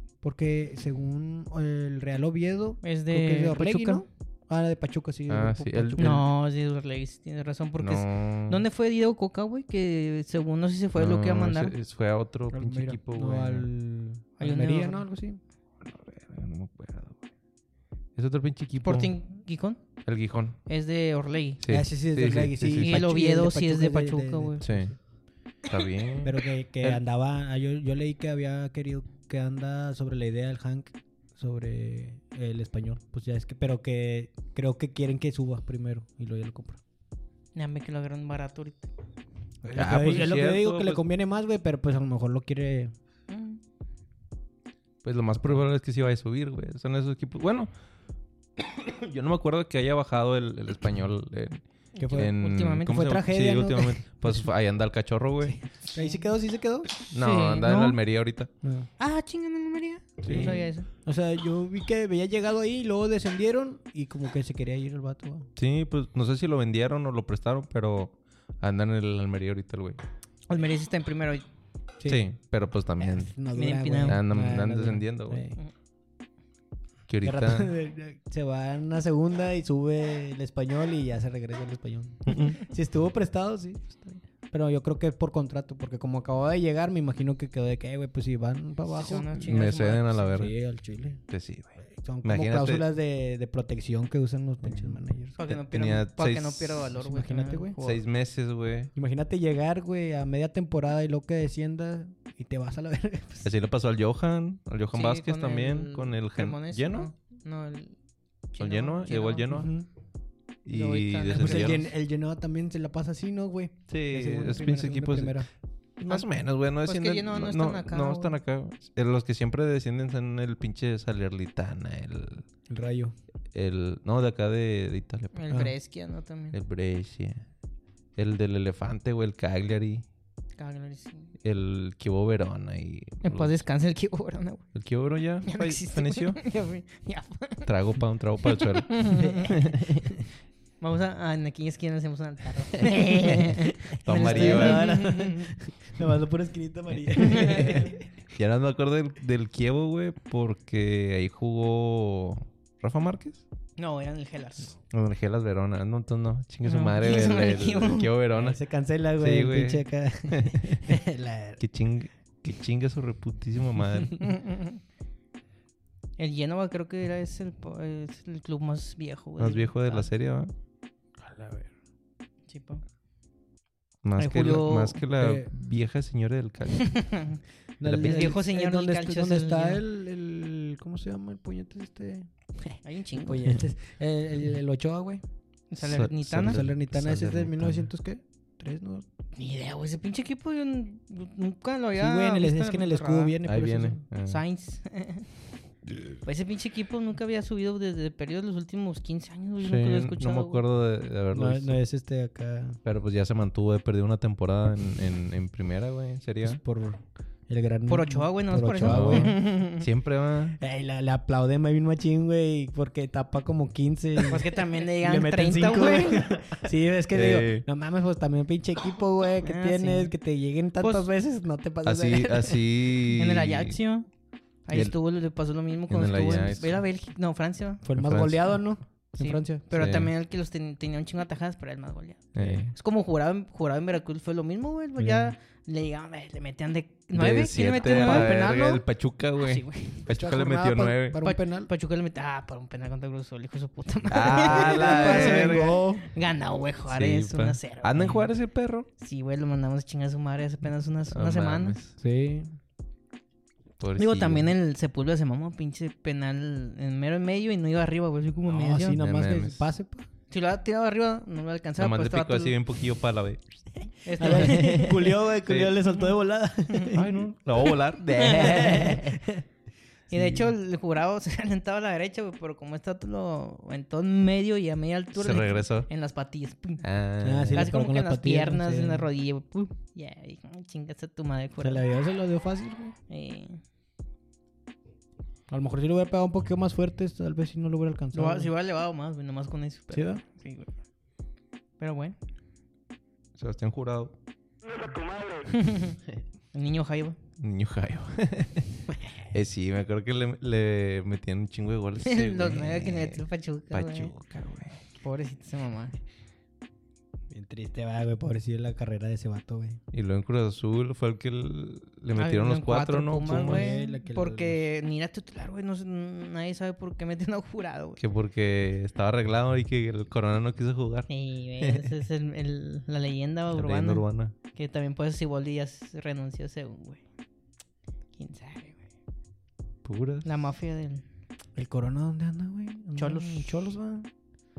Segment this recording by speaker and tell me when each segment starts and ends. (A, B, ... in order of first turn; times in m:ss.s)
0:00.2-0:06.2 A
0:02.8-0:04.0 B
0:05.3-0:06.2 C
0:06.0-0:11.7 B
0:07.8-0:08.6 C
0:11.0-0:13.7 C
0:12.5-0:15.4 A
0:14.4-0:15.0 B
0:15.8-0:17.2 C
0:18.1-0:19.1 C
0:18.8-0:20.0 B
0:20.0-0:20.6 C
0:20.7-0:21.6 B
0:21.6-0:23.0 C
0:21.7-0:24.9 A
0:22.8-0:24.6 B
0:24.6-0:25.0 C
0:25.6-0:27.0 C
0:26.2-0:36.8 A
0:37.5-0:38.9 B
0:39.6-0:42.9 A
0:39.7-0:41.0 C
0:43.3-0:43.6 B
0:45.0-0:47.7 C
0:48.6-0:55.6 C
0:51.9-0:53.0 B
0:52.0-0:54.5 A
0:55.4-0:56.9 A
0:57.1-0:58.5 C
0:57.1-0:58.0 B
0:58.6-0:58.9 A
0:59.0-1:00.9 B
1:00.2-1:00.6 C
1:00.2-1:05.5 A
1:05.6-1:10.0 C
1:10.5-1:11.4 B
1:12.0-1:13.3 C
1:13.0-1:15.6 A
1:13.5-1:14.2 B
1:14.0-1:15.4 C
1:17.1-1:17.7 C
1:17.2-1:29.6 A
1:22.2-1:22.6 C
1:28.9-1:30.4 B
1:29.4-1:30.5 C
1:30.3-1:31.2 A
1:31.3-1:32.8 C
1:31.9-1:35.3 A
1:34.6-1:36.9 C
1:35.4-1:38.0 B
1:37.0-1:37.8 A
1:37.8-1:38.9 C
1:38.9-1:43.5 A
1:43.4-1:47.1 C
1:44.9-1:48.0 B
1:48.5-1:49.5 B
1:48.6-1:49.7 C
1:49.5-1:49.9 A
1:50.6-1:51.8 C
1:50.7-1:51.9 B
1:51.3-1:55.5 A
1:53.9-1:55.4 C
1:56.0-2:02.4 C
1:56.8-1:58.4 B
2:02.7-2:03.1 A
2:03.5-2:05.5 C
2:05.3-2:06.6 B
2:06.5-2:07.4 C
2:08.2-2:10.0 C
2:10.6-2:11.3 B
2:11.4-2:13.6 C
2:13.2-2:14.6 B
2:14.7-2:16.4 C
2:15.4-2:17.7 B
2:17.6-2:20.1 C
2:18.4-2:19.6 B
2:19.2-2:20.2 A
2:20.8-2:25.5 B
2:23.9-2:25.0 C
2:24.2-2:28.0 A
2:27.2-2:27.8 B
2:28.3-2:33.4 C
2:33.8-2:34.7 B
2:34.9-2:38.6 C
2:36.6-2:38.1 B
2:38.3-2:41.6 A
2:39.2-2:40.9 C
2:41.6-2:44.4 C
2:44.2-2:44.8 B
2:46.2-2:50.1 B
2:49.4-2:50.5 C
2:51.2-2:51.7 A
2:52.5-2:52.8 B
2:54.0-2:57.1 C
2:54.2-2:55.0 B
2:55.2-2:55.5 A
2:56.7-2:57.4 B
2:57.8-3:05.2 A
2:57.8-2:58.3 C
2:58.0-2:59.8 B
3:02.8-3:03.6 B
3:05.7-3:06.6 B
3:05.8-3:07.9 C
3:06.4-3:09.1 A
3:09.4-3:13.4 B
3:12.0-3:14.0 A
3:13.4-3:14.4 C
3:14.2-3:15.3 B
3:16.2-3:20.6 B
3:19.6-3:21.8 C
3:21.3-3:22.8 A
3:22.8-3:26.6 C
3:26.4-3:29.4 A
3:27.9-3:29.8 B
3:28.6-3:30.6 C
3:30.6-3:42.6 A
3:34.2-3:36.3 B
3:37.1-3:37.6 C
3:39.4-3:40.1 B
3:40.8-3:41.1 B
3:41.8-3:43.8 C
3:43.2-3:44.1 B
3:44.6-3:47.8 B
3:44.7-3:45.0 C
3:45.9-3:46.8 C
3:47.8-3:49.7 A
3:48.0-3:48.7 C
3:49.2-3:58.8 B
3:49.7-3:50.1 C
3:52.3-3:52.7 C
3:55.0-3:55.3 A
3:57.1-4:01.2 C
3:57.9-3:58.4 A
3:59.4-4:00.0 B
4:00.1-4:01.7 A
4:01.2-4:08.2 B
4:04.1-4:05.8 C
4:04.3-4:06.0 A
4:06.9-4:08.9 C
4:09.0-4:11.8 B
4:11.1-4:11.9 C
4:12.0-4:12.5 A
4:13.8-4:14.5 C
4:14.0-4:19.0 B
4:18.5-4:20.1 A
4:19.0-4:19.6 C
4:20.3-4:22.5 B
4:21.8-4:23.6 C
4:24.0-4:24.9 B
4:24.2-4:27.7 A
4:24.2-4:24.9 C
4:25.4-4:25.8 C
4:26.9-4:29.2 C
4:28.1-4:29.0 B
4:28.2-4:29.4 A
4:30.1-4:30.5 A
4:30.1-4:36.8 B
4:35.1-4:35.9 C
4:36.8-4:37.6 C
4:37.2-4:39.1 A
4:37.5-4:41.8 B
4:41.6-4:43.0 A
4:43.1-4:43.6 B
4:45.5-4:48.5 A
4:48.1-4:50.7 B
4:49.9-4:50.2 A
4:51.8-4:52.2 B
4:53.4-4:54.1 C
4:55.4-4:56.0 B
4:56.5-4:57.2 B
4:57.4-4:58.8 C
4:59.3-5:04.8 C
5:02.0-5:04.1 B
5:05.0-5:06.0 B
5:07.3-5:09.8 A
5:09.9-5:13.8 C
5:12.2-5:18.0 B
5:13.4-5:14.6 A
5:18.0-5:21.9 C
5:21.1-5:27.0 B
5:23.5-5:24.3 C
5:28.2-5:28.8 B
5:29.8-5:30.3 C
5:30.2-5:31.0 B
5:31.5-5:34.1 A
5:33.0-5:33.6 B